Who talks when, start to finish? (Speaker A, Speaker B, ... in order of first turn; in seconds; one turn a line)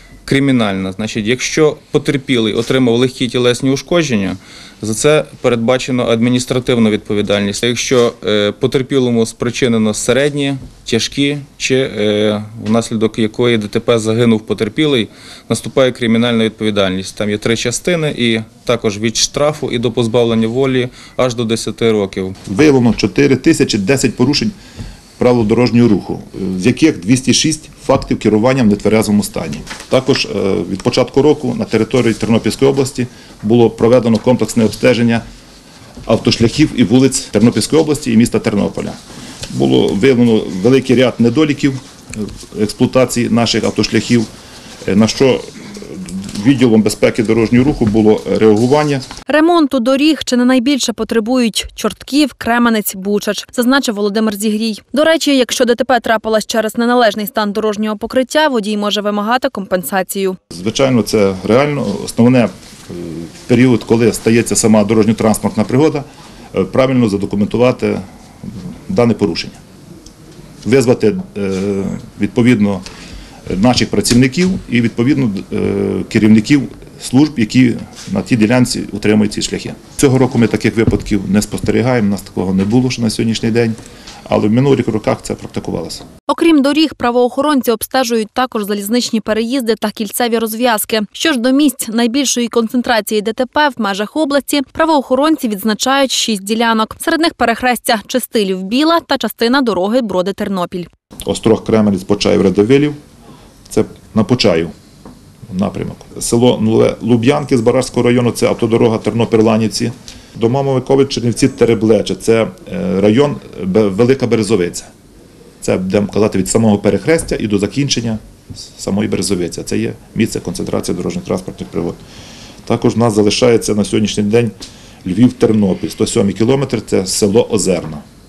Speaker A: 0.3-22.4
Speaker B: 22.5-24.5
Speaker B: 25.2-35.2
Speaker B: 36.0-39.0
Speaker B: 39.5-44.3
Speaker B: 44.9-49.0
Speaker C: 49.3-60.4
Speaker B: 60.5-68.0
Speaker B: 68.9-69.6
Speaker B: 70.6-72.8
Speaker B: 73.5-86.0
Speaker C: 86.3-100.9
Speaker B: 101.3-103.0
Speaker B: 103.7-104.7
Speaker B: 105.5-114.9
Speaker B: 115.6-118.2
Speaker B: 118.8-122.0
Speaker B: 122.7-128.0